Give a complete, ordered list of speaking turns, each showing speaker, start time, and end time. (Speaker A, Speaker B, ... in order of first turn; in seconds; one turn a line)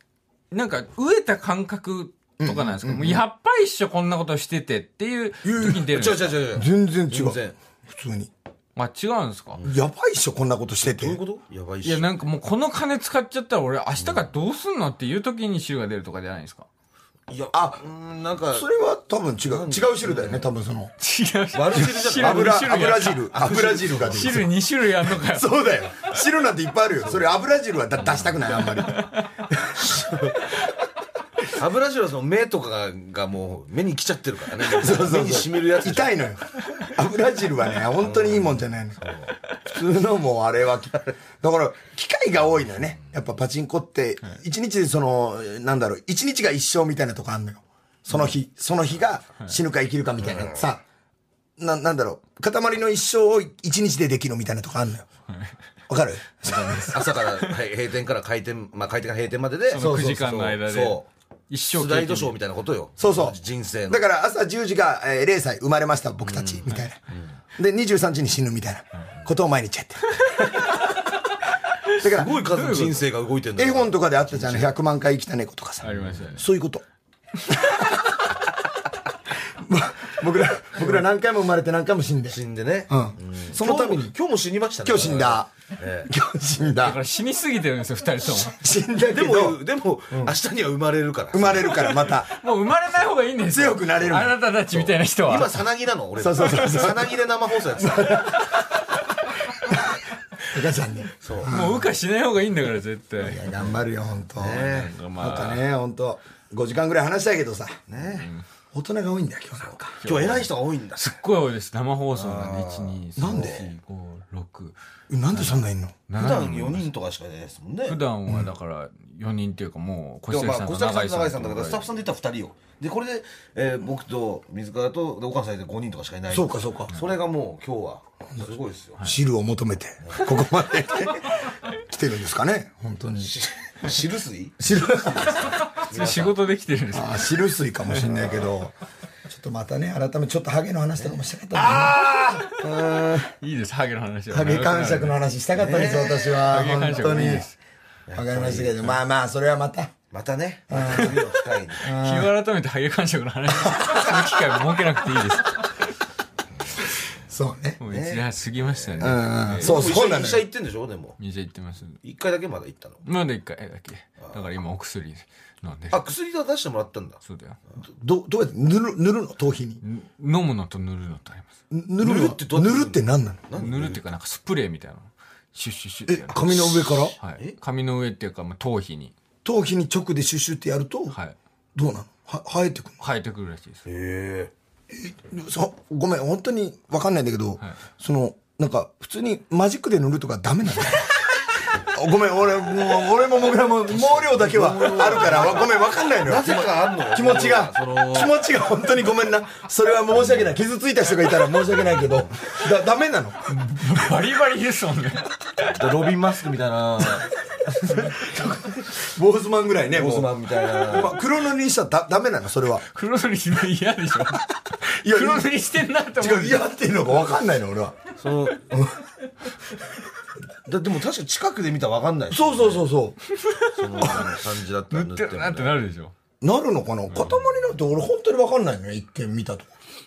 Speaker A: 0.5-6.3
Speaker B: 2.4-3.2
Speaker B: 5.4-6.0
Speaker C: 5.9-7.6
Speaker B: 6.5-8.3
Speaker A: 8.8-9.6
Speaker B: 9.6-11.2
Speaker C: 10.8-12.2
Speaker A: 11.8-16.7
Speaker C: 14.0-14.3
Speaker C: 17.3-18.6
Speaker B: 17.5-17.8
Speaker B: 18.5-20.9
Speaker C: 19.4-20.5
Speaker A: 21.0-23.3
Speaker C: 21.5-24.4
Speaker B: 21.8-24.5
Speaker A: 24.0-25.5
Speaker B: 25.0-30.0
Speaker C: 27.0-27.4
Speaker C: 28.0-28.3
Speaker A: 28.5-29.4
Speaker C: 29.8-30.5
Speaker C: 31.5-36.2
Speaker B: 34.6-39.0
Speaker C: 38.0-39.4
Speaker B: 39.6-50.8
Speaker C: 48.1-48.4
Speaker C: 50.2-50.6
Speaker B: 51.6-55.1
Speaker B: 55.9-57.1
Speaker A: 56.5-57.5
Speaker C: 56.9-61.1
Speaker A: 59.7-61.0
Speaker B: 59.8-60.2
Speaker A: 61.5-62.4
Speaker C: 61.7-64.0
Speaker B: 63.0-67.0
Speaker C: 66.2-66.7
Speaker B: 67.6-70.2
Speaker A: 70.2-70.8
Speaker C: 71.9-74.7
Speaker B: 72.0-72.4
Speaker A: 72.5-73.0
Speaker B: 73.5-76.8
Speaker A: 75.8-76.5
Speaker B: 79.5-82.4
Speaker C: 80.8-81.0
Speaker C: 82.3-86.1
Speaker B: 82.9-84.2
Speaker B: 84.8-85.5
Speaker B: 86.1-87.0
Speaker A: 86.6-88.5
Speaker B: 88.3-89.6
Speaker C: 89.1-91.9
Speaker B: 91.3-92.3
Speaker A: 91.7-95.6
Speaker B: 93.5-94.4
Speaker C: 94.7-98.3
Speaker B: 96.2-97.2
Speaker B: 97.8-98.6
Speaker B: 99.6-101.9
Speaker C: 101.2-101.5
Speaker A: 101.5-103.5
Speaker B: 103.2-107.8
Speaker C: 104.3-105.0
Speaker A: 104.5-105.7
Speaker C: 107.9-108.3
Speaker A: 108.0-108.5
Speaker B: 108.7-110.0
Speaker C: 109.6-111.2
Speaker A: 110.0-114.8
Speaker C: 112.1-113.7
Speaker B: 113.2-113.7
Speaker B: 115.1-116.0
Speaker A: 115.3-116.9
Speaker C: 116.2-118.0
Speaker A: 117.9-121.9
Speaker C: 120.3-129.1
Speaker B: 126.3-127.0
Speaker B: 129.0-133.3
Speaker C: 130.1-130.3
Speaker C: 133.2-136.4
Speaker B: 134.6-135.4
Speaker A: 135.9-137.3
Speaker B: 136.9-138.8
Speaker A: 137.9-138.2
Speaker B: 139.3-143.3
Speaker C: 141.0-141.9
Speaker A: 141.6-142.6
Speaker A: 143.4-145.2
Speaker B: 144.3-147.5
Speaker C: 145.5-147.3
Speaker A: 146.5-147.6
Speaker C: 148.1-149.0
Speaker B: 148.2-149.9
Speaker C: 150.1-151.9
Speaker B: 150.7-151.2
Speaker B: 151.8-152.3
Speaker A: 151.9-155.7
Speaker B: 153.6-154.3
Speaker B: 157.3-157.8
Speaker A: 157.8-159.8
Speaker C: 157.9-161.2
Speaker B: 159.0-160.4
Speaker A: 161.2-162.0
Speaker C: 162.0-163.1
Speaker A: 163.0-166.0
Speaker C: 165.9-167.2
Speaker A: 167.2-167.6
Speaker B: 167.9-169.8
Speaker A: 169.8-171.5
Speaker B: 171.7-173.4
Speaker C: 172.0-174.0
Speaker A: 173.5-179.1
Speaker B: 176.1-177.2
Speaker B: 179.4-181.2
Speaker A: 181.1-181.3
Speaker B: 181.8-183.0
Speaker A: 183.0-183.8
Speaker C: 183.8-184.5
Speaker B: 184.9-203.5
Speaker C: 193.9-198.4
Speaker A: 203.5-205.4
Speaker C: 205.6-207.3
Speaker B: 207.7-212.8
Speaker C: 209.9-211.2
Speaker A: 212.9-216.7
Speaker B: 214.8-215.7
Speaker B: 216.2-218.0
Speaker C: 218.2-218.8
Speaker B: 218.7-219.0
Speaker C: 220.7-222.9
Speaker B: 222.3-223.2
Speaker A: 223.3-224.3
Speaker C: 223.7-225.8
Speaker B: 224.0-224.3
Speaker A: 224.9-226.1
Speaker B: 226.4-229.7
Speaker C: 227.1-227.4